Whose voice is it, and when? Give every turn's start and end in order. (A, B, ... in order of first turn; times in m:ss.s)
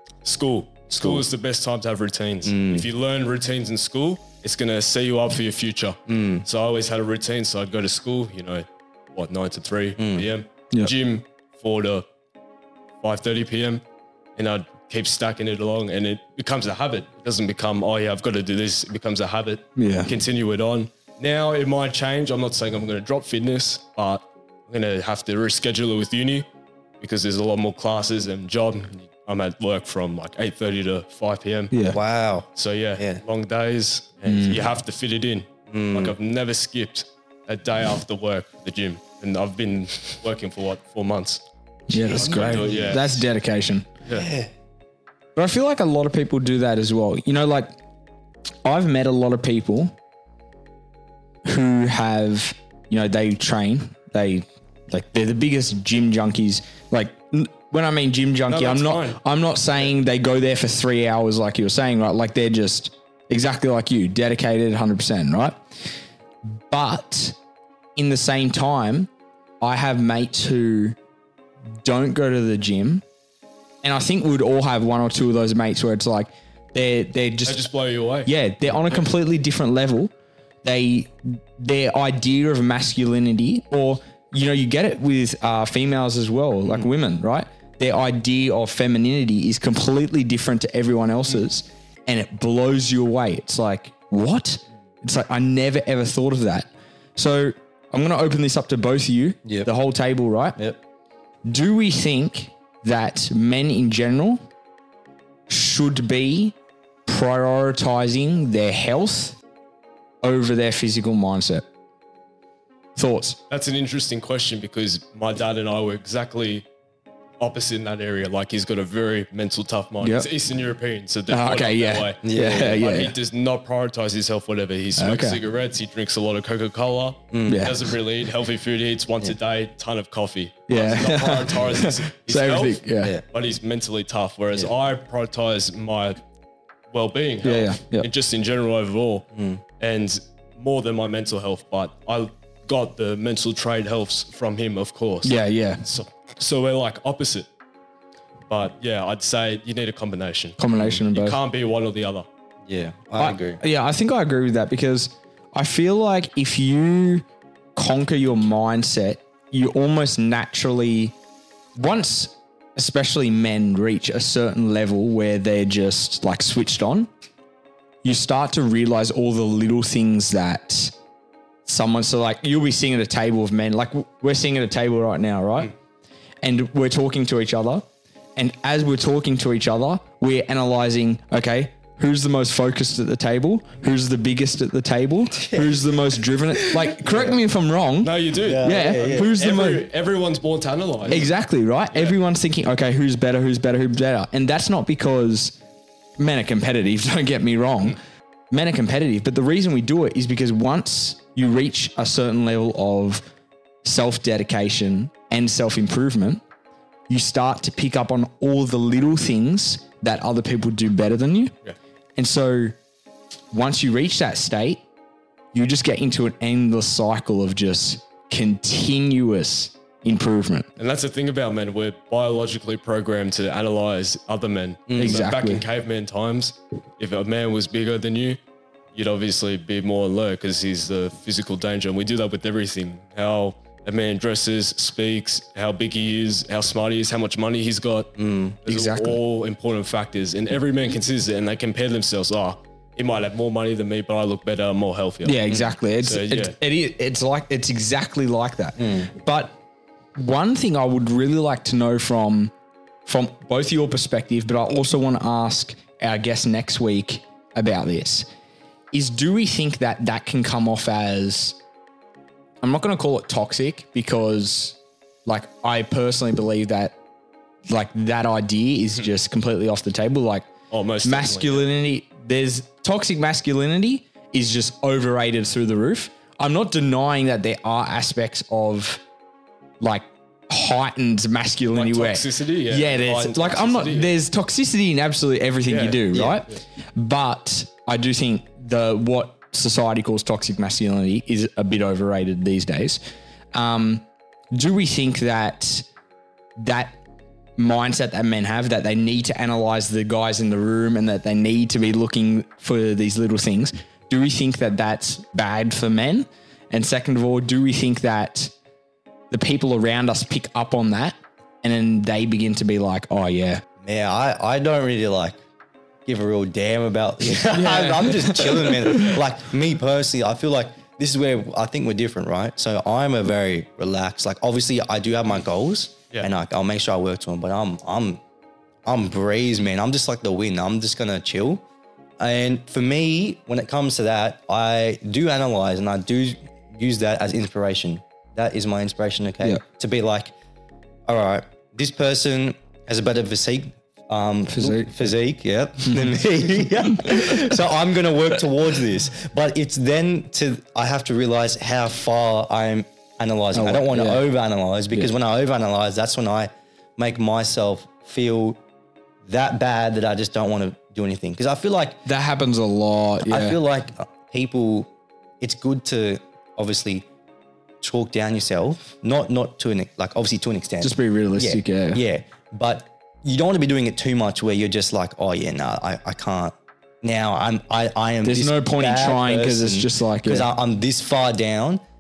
0:00.2-0:12.0 A
0:00.9-0:01.3 B
0:02.4-0:02.9 B
0:06.1-0:06.4 B
0:10.0-0:10.3 B
0:13.0-0:13.8 A
0:14.4-0:26.5 A
0:19.8-0:20.1 C
0:27.0-0:31.8 A
0:31.7-0:32.0 C
0:31.9-0:33.2 B
0:32.6-0:41.4 A
0:34.2-0:34.6 C
0:35.7-0:36.2 B
0:41.9-0:43.9 C
0:42.0-0:43.2 A
0:42.1-0:43.0 B
0:44.1-0:44.5 B
0:45.4-0:47.7 C
0:48.6-0:49.9 C
0:51.4-1:05.6 C
0:58.5-0:59.2 A
1:06.7-1:07.4 C
1:08.0-1:09.1 C
1:09.6-1:11.0 C
1:11.8-1:13.0 C
1:13.8-1:17.7 C
1:17.4-1:18.3 A
1:18.3-1:20.1 C
1:20.6-1:40.6 C
1:41.5-1:44.4 C
1:45.5-1:46.6 C
1:47.1-1:49.4 C
1:50.2-1:51.7 C
1:53.0-1:53.4 C
1:53.5-1:56.7 A
1:57.4-2:16.2 A
2:00.0-2:00.3 C
2:01.3-2:03.1 C
2:02.2-2:02.8 B
2:05.0-2:05.4 C
2:07.3-2:07.8 B
2:07.5-2:07.8 C
2:10.7-2:13.2 C
2:16.9-2:19.3 A
2:17.4-2:18.1 C
2:19.4-2:19.6 B
2:19.8-2:27.5 A
2:25.2-2:25.8 C
2:28.5-2:32.3 A
2:30.6-2:31.4 C
2:30.8-2:31.0 B
2:32.7-2:33.6 B
2:33.2-2:37.2 C
2:37.8-2:41.2 C
2:41.8-2:47.1 C
2:48.0-2:50.9 C
2:51.7-2:55.7 C
2:56.4-3:09.8 C
3:05.4-3:05.8 B
3:06.6-3:07.4 B
3:08.0-3:11.3 A
3:08.4-3:09.3 B
3:11.1-3:15.6 C
3:16.2-3:18.0 C
3:18.5-3:23.3 C
3:23.8-3:26.4 C
3:27.1-3:31.5 C
3:32.2-3:32.8 C
3:33.5-3:34.8 C
3:35.5-3:40.7 C
3:40.8-3:48.4 A
3:44.9-3:45.2 B
3:45.0-3:45.6 C
3:48.9-4:06.6 A
3:58.2-3:58.6 B
3:58.7-3:59.2 C
4:05.2-4:09.6 C
4:08.8-4:09.1 B
4:10.2-4:12.5 C
4:13.1-4:18.3 C
4:18.9-4:21.6 C
4:22.6-4:27.0 C
4:27.7-4:30.5 C
4:30.7-4:31.7 A
4:31.0-4:39.0 C
4:39.8-4:53.0 C
4:41.7-4:44.1 A
4:45.7-4:46.0 A
4:46.1-4:46.4 B
4:53.5-4:55.9 C
4:56.6-4:57.0 C
4:57.6-5:08.5 C
5:09.3-5:13.6 C
5:13.8-5:15.4 B
5:16.1-5:28.2 B
5:17.2-5:19.2 C
5:28.9-5:31.6 B
5:32.2-5:40.3 B
5:41.1-5:58.6 B
5:44.5-5:44.9 C
5:47.1-5:47.4 C
5:53.5-5:54.3 C
5:59.3-6:02.0 B
6:02.1-6:03.6 C
6:03.2-6:04.9 B
6:05.4-6:07.1 B
6:07.8-6:21.8 B
6:10.8-6:12.0 C
6:18.2-6:20.5 C